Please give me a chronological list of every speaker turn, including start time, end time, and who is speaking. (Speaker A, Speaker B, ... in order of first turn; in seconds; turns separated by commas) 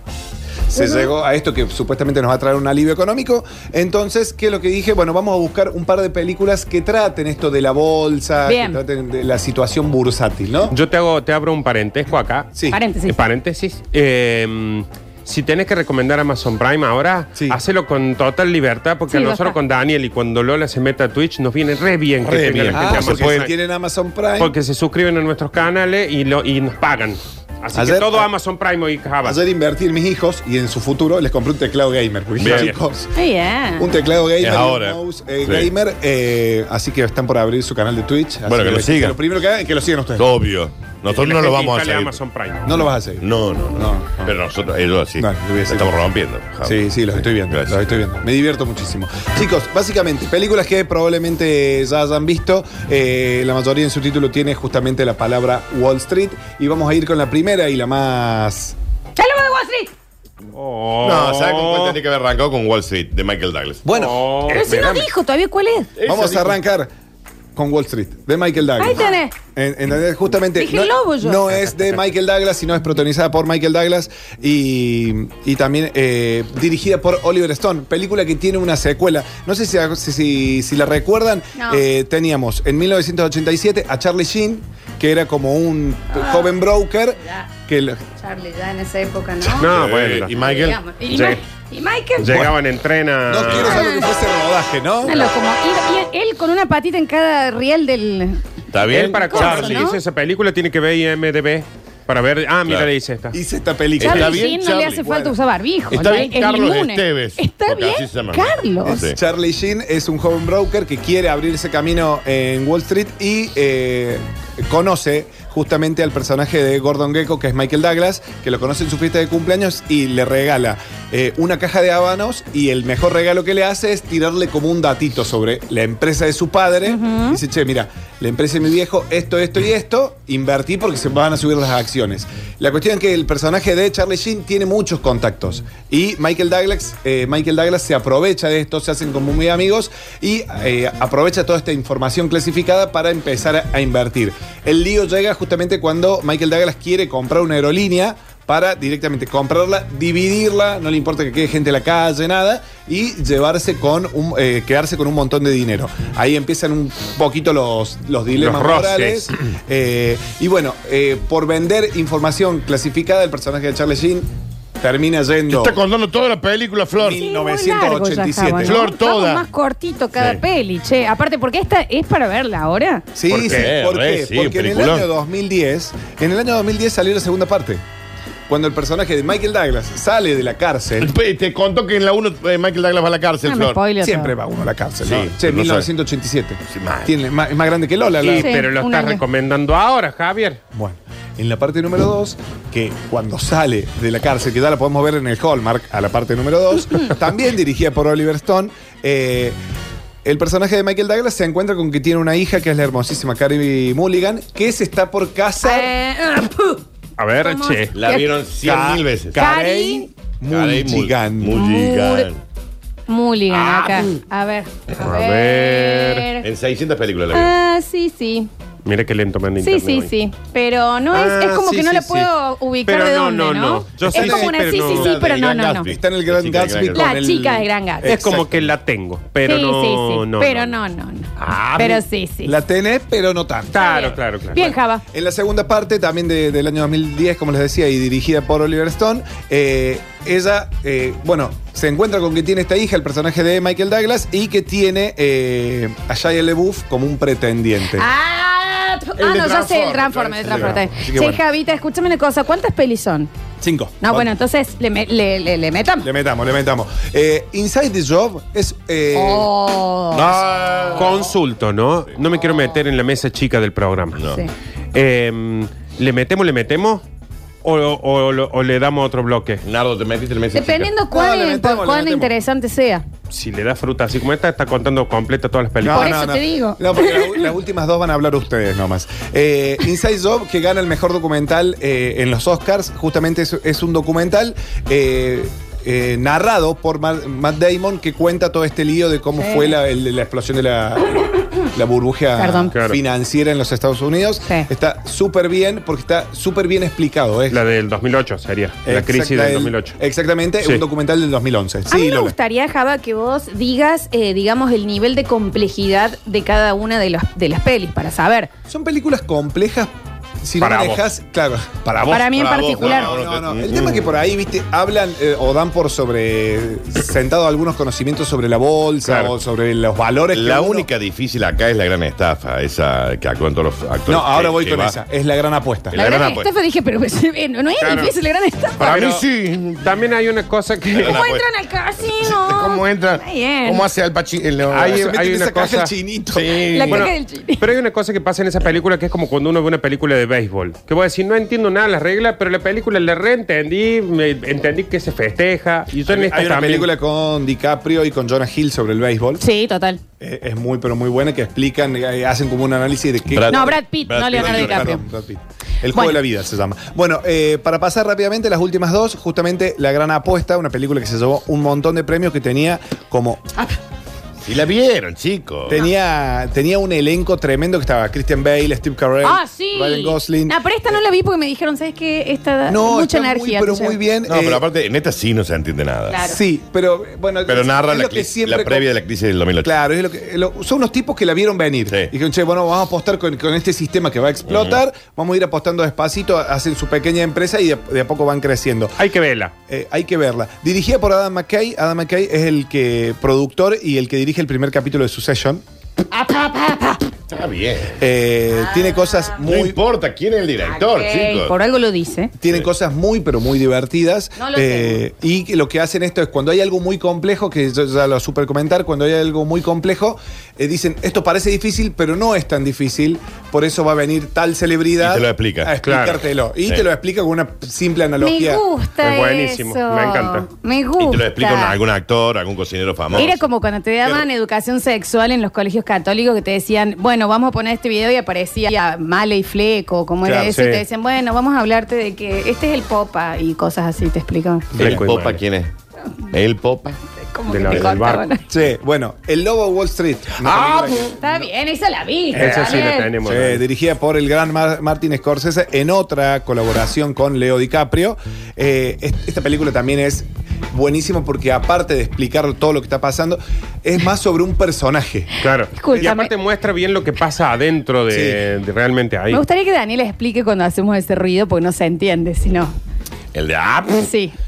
Speaker A: 0.7-10.8, Speaker B: 0.7-1.1, Speaker B: 8.4-8.8, Speaker C: 10.7-12.5, Speaker B: 12.7-13.2, Speaker C: 13.1-23.5, Speaker B: 19.1-19.6, Speaker D: 22.2-23.5, Speaker A: 22.2-24.5, Speaker C: 24.4-29.4, Speaker A: 27.7-28.3, Speaker A: 29.2-33.1, Speaker D: 32.4-32.7, Speaker C: 32.4-32.8, Speaker B: 33.1-33.9, Speaker A: 33.8-40.3, Speaker D: 34.4-35.7, Speaker D: 38.5-39.2, Speaker D: 40.2-42.2, Speaker C: 41.1-42.8, Speaker A: 42.6-44.3, Speaker D: 43.2-47.9, Speaker A: 45.2-46.0, Speaker A: 46.6-58.8, Speaker B: 59.1-59.9, Speaker C: 60.5-62.0, Speaker D: 61.0-63.8, Speaker A: 63.8-65.1, Speaker C: 63.9-64.6, Speaker B: 64.5-65.9, Speaker D: 66.0-66.6, Speaker A: 66.0-66.9, Speaker A: 67.5-88.0, Speaker B: 68.8-69.3, Speaker B: 70.6-71.5, Speaker C: 71.6-72.0, Speaker B: 81.5-81.8, Speaker B: 86.1-86.5, Speaker B: 88.2-89.7, Speaker C: 89.6-90.3, Speaker D: 89.6-90.8, Speaker B: 90.4-92.4, Speaker C: 91.1-91.4, Speaker C: 92.2-93.8, Speaker A: 93.3-95.2, Speaker B: 93.6-94.1, Speaker B: 95.0-98.4, Speaker D: 98.7-99.9, Speaker C: 98.9-103.3, Speaker B: 99.0-100.0, Speaker A: 103.3-105.3, Speaker D: 104.0-105.3, Speaker B: 104.0-109.0, Speaker D: 105.9-109.2, Speaker A: 108.9-164.3, Speaker B: 126.9-127.4, Speaker C: 158.4-159.3, Speaker A: 164.8-165.8, Speaker D: 165.5-167.2, Speaker A: 167.0-168.8, Speaker B: 167.2-173.1, Speaker D: 168.6-169.4, Speaker A: 173.1-177.8, Speaker C: 173.3-173.7, Speaker D: 173.4-175.1, Speaker A: 178.5-181.1, Speaker D: 181.0-183.8, Speaker B: 183.4-184.3, Speaker A: 184.0-188.6, Speaker D: 185.0-185.9, Speaker D: 186.7-187.1, Speaker C: 188.2-190.6, Speaker B: 188.3-189.2, Speaker A: 190.7-199.6, Speaker A: 200.2-205.9, Speaker B: 205.6-206.8, Speaker C: 207.2-207.9, Speaker B: 207.4-208.3, Speaker D: 207.9-209.4, Speaker A: 208.6-211.6, Speaker B: 209.3-210.1, Speaker D: 210.5-212.4, Speaker B: 211.5-212.3, Speaker B: 213.1-216.4, Speaker C: 215.0-216.3, Speaker D: 216.4-217.5, Speaker B: 217.3-218.5, Speaker C: 218.8-220.1, Speaker B: 219.6-225.9, Speaker C: 221.1-222.3, Speaker C: 222.8-225.1, Speaker A: 224.1-224.7, Speaker D: 224.8-227.1, Speaker A: 225.8-228.7, Speaker B: 226.9-228.1, Speaker C: 228.0-230.7, Speaker B: 229.4-232.5, Speaker D: 231.4-231.9, Speaker A: 232.4-233.7, Speaker C: 233.7-234.7, Speaker B: 233.7-235.0, Speaker A: 235.1-248.1, Speaker B: 247.9-253.3, Speaker D: 249.2-250.8, Speaker A: 250.4-251.4, Speaker A: 253.6-254.3, Speaker B: 254.0-256.1, Speaker A: 256.0-259.5, Speaker B: 259.1-260.4, Speaker D: 260.1-261.3, Speaker C: 260.9-264.2, Speaker D: 264.1-264.4, Speaker C: 264.9-267.0, Speaker C: 267.6-269.6, Speaker D: 269.6-270.9, Speaker B: 270.5-273.0, Speaker A: 271.1-272.3, Speaker C: 273.3-276.1, Speaker A: 275.8-297.6, Speaker B: 275.9-277.4, Speaker B: 289.4-289.7, Speaker B: 292.4-292.7, Speaker C: 292.7-293.0, Speaker C: 297.5-299.9, Speaker A: 298.8-302.4, Speaker B: 301.9-308.5, Speaker A: 308.7-320.9, Speaker C: 310.6-311.0, Speaker B: 312.1-313.1, Speaker D: 312.1-314.1, Speaker D: 320.3-324.9, Speaker A: 324.1-325.9, Speaker D: 325.9-326.5, Speaker B: 325.9-328.9, Speaker C: 327.8-328.1, Speaker C: 328.8-329.2, Speaker D: 328.8-329.9, Speaker C: 329.8-331.2, Speaker D: 330.9-331.5, Speaker B: 331.0-333.9, Speaker D: 332.0-335.1, Speaker C: 334.7-335.9, Speaker A: 334.8-336.6, Speaker D: 336.3-337.0, Speaker B: 336.7-337.6, Speaker C: 336.9-346.9, Speaker A: 346.1-349.4, Speaker B: 349.4-350.0, Speaker A: 350.2-363.5, Speaker D: 353.3-355.0, Speaker B: 353.5-355.0, Speaker B: 355.9-356.2, Speaker D: 364.4-365.8, Speaker A: 365.7-370.6, Speaker B: 369.2-374.0, Speaker A: 372.7-374.6, Speaker D: 374.3-376.2, Speaker B: 376.1-376.4, Speaker A: 376.2-378.9, Speaker D: 377.5-379.7, Speaker A: 379.6-388.9, Speaker D: 384.5-384.8, Speaker C: 389.0-389.5, Speaker A: 389.7-395.6, Speaker B: 396.1-397.0, Speaker D: 397.3-398.0, Speaker A: 398.0-399.8, Speaker B: 398.5-399.3, Speaker D: 399.4-401.5, Speaker B: 400.6-402.3, Speaker A: 402.4-418.6, Speaker B: 404.4-405.0, Speaker D: 415.0-415.7, Speaker C: 415.8-416.2, Speaker B: 418.2-421.8, Speaker C: 419.0-420.4, Speaker D: 421.0-423.4, Speaker B: 423.1-434.7, Speaker C: 430.2-430.8, Speaker C: 434.7-435.4, Speaker D: 434.8-435.7, Speaker D: 436.3-437.0, Speaker B: 437.2-438.4, Speaker C: 437.5-438.2, Speaker A: 438.5-441.4, Speaker B: 440.5-443.1, Speaker C: 442.3-443.6, Speaker A: 442.4-455.3, Speaker C: 455.4-459.4, Speaker B: 455.7-456.3, Speaker A: 458.1-458.4, Speaker B: 459.3-462.7, Speaker D: 463.3-464.1, Speaker B: 464.0-464.3